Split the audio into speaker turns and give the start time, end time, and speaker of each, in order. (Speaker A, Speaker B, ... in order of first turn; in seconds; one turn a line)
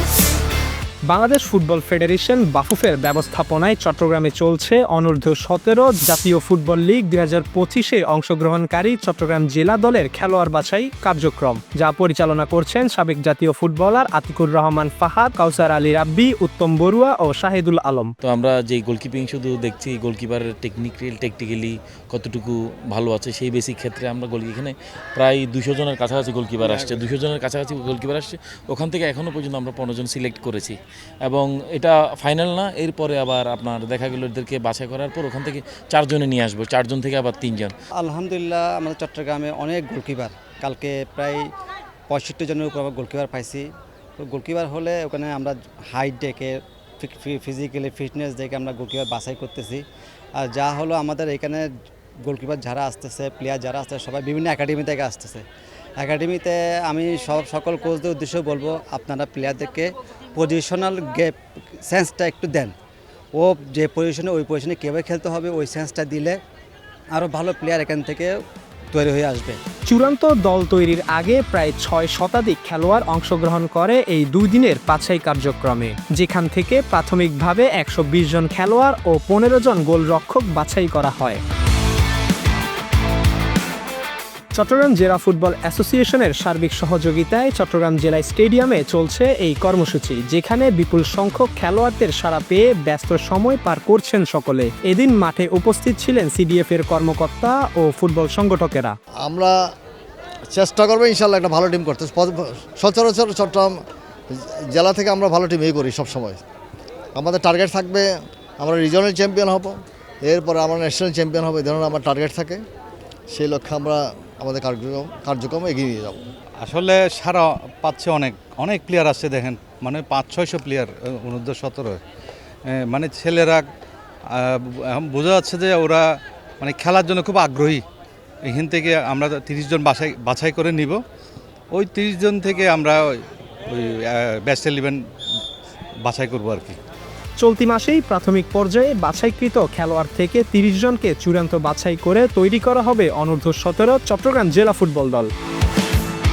Speaker A: 1.1-18.1
Speaker B: 18.2-37.7
Speaker C: 38.0-41.5
Speaker C: 42.1-49.8
Speaker C: 50.4-55.5
Speaker C: 56.0-62.7
Speaker C: 63.3-66.4
Speaker C: 67.1-69.6
Speaker A: 69.9-81.4
Speaker A: 84.5-99.0
Speaker D: 99.2-99.6
Speaker D: 100.5-103.8
Speaker D: 104.3-106.4
Speaker D: 107.2-112.6
Speaker D: 113.3-116.2
Speaker E: 116.6-122.0
Speaker E: 122.7-123.7
Speaker E: 124.3-127.8
Speaker E: 128.4-131.0
Speaker E: 131.7-135.0
Speaker E: 136.1-136.8
Speaker A: 137.4-145.3